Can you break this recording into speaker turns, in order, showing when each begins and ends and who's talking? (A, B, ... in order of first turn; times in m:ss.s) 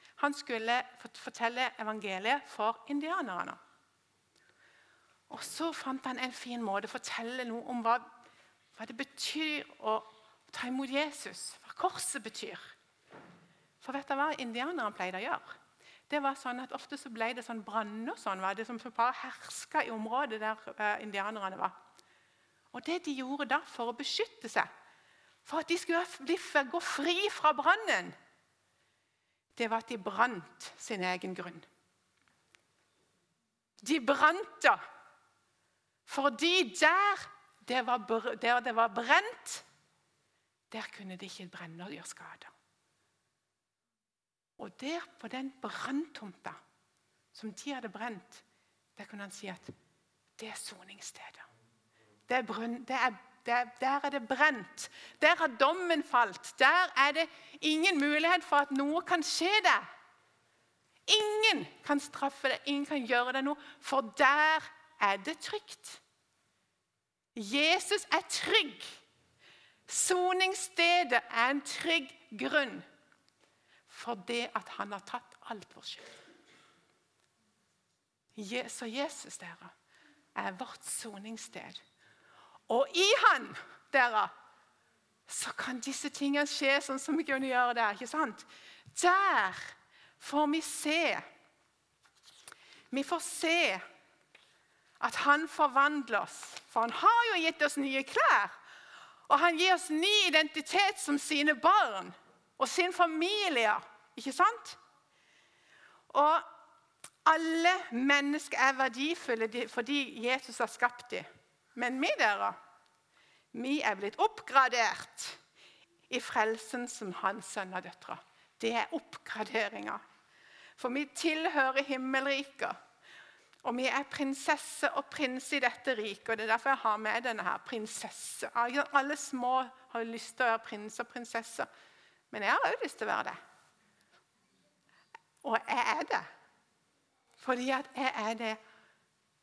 0:00.2-0:03.6 A
0:05.3-0:08.0 A
0:08.8-0:12.8 A
0:13.8-0:15.6 A
0:16.1-0:21.7 A
0:22.7-0:24.7 A
0:25.4-0:28.2 A
0:29.6-0:31.6 A
0:33.8-0:34.8 A
0:36.1-0:39.6 A
0:40.7-0:42.5 A
0:44.6-0:46.6 A
0:47.3-0:48.4 A
0:49.0-0:49.7 A
0:50.4-0:51.5 A
0:52.3-0:59.9 A
1:01.1-1:06.0 A
1:07.3-1:09.0 A
1:09.9-1:12.8 A
1:13.9-1:16.1 A
1:18.4-1:19.7 A
1:20.4-1:21.8 A
1:22.7-1:24.3 A
1:25.3-1:31.2 A
1:32.9-1:33.8 A
1:35.0-1:38.5 A
1:39.3-1:44.8 A
1:46.1-1:46.4 A
1:47.2-1:52.6 A
1:53.5-1:55.4 A
1:56.1-2:00.0 A
2:00.8-2:02.8 A
2:03.6-2:11.7 A
2:12.3-2:13.4 A
2:15.4-2:16.3 A
2:17.4-2:18.6 A